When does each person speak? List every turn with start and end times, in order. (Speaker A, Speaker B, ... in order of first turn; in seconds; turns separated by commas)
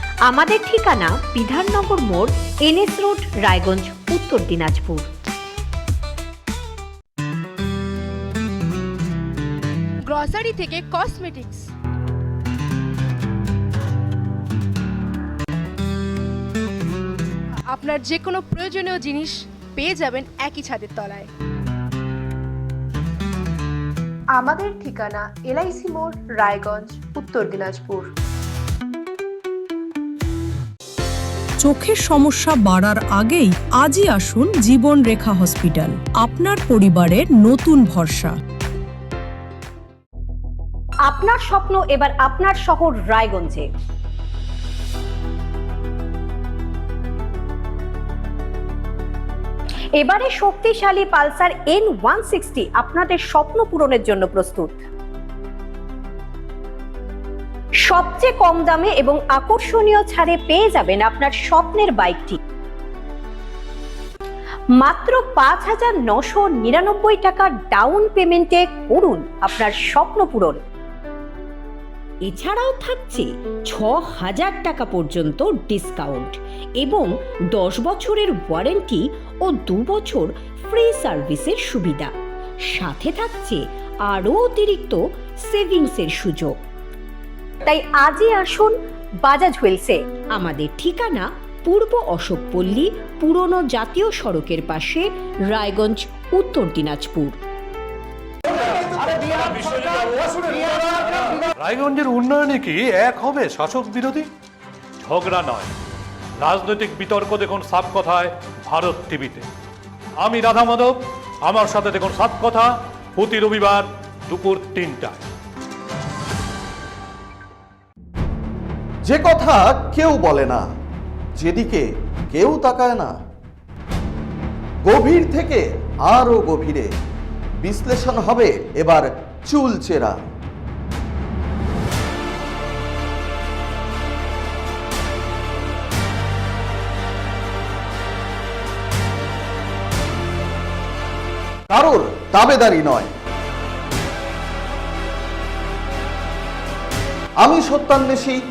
Speaker A: 0.2-5.1, Speaker B: 10.0-11.7, Speaker B: 17.7-21.3, Speaker C: 24.4-28.1, Speaker D: 31.6-38.4, Speaker A: 41.1-43.6, Speaker A: 50.0-54.8, Speaker A: 57.9-62.4, Speaker A: 64.8-70.6, Speaker A: 72.2-82.1, Speaker A: 82.7-86.6, Speaker A: 87.7-97.3, Speaker E: 98.5-104.3, Speaker E: 105.0-105.7, Speaker E: 106.4-109.5, Speaker E: 110.2-115.2, Speaker F: 119.0-120.6, Speaker F: 121.4-123.1, Speaker F: 124.8-126.9, Speaker F: 127.6-130.2, Speaker F: 141.7-143.1, Speaker F: 147.4-148.4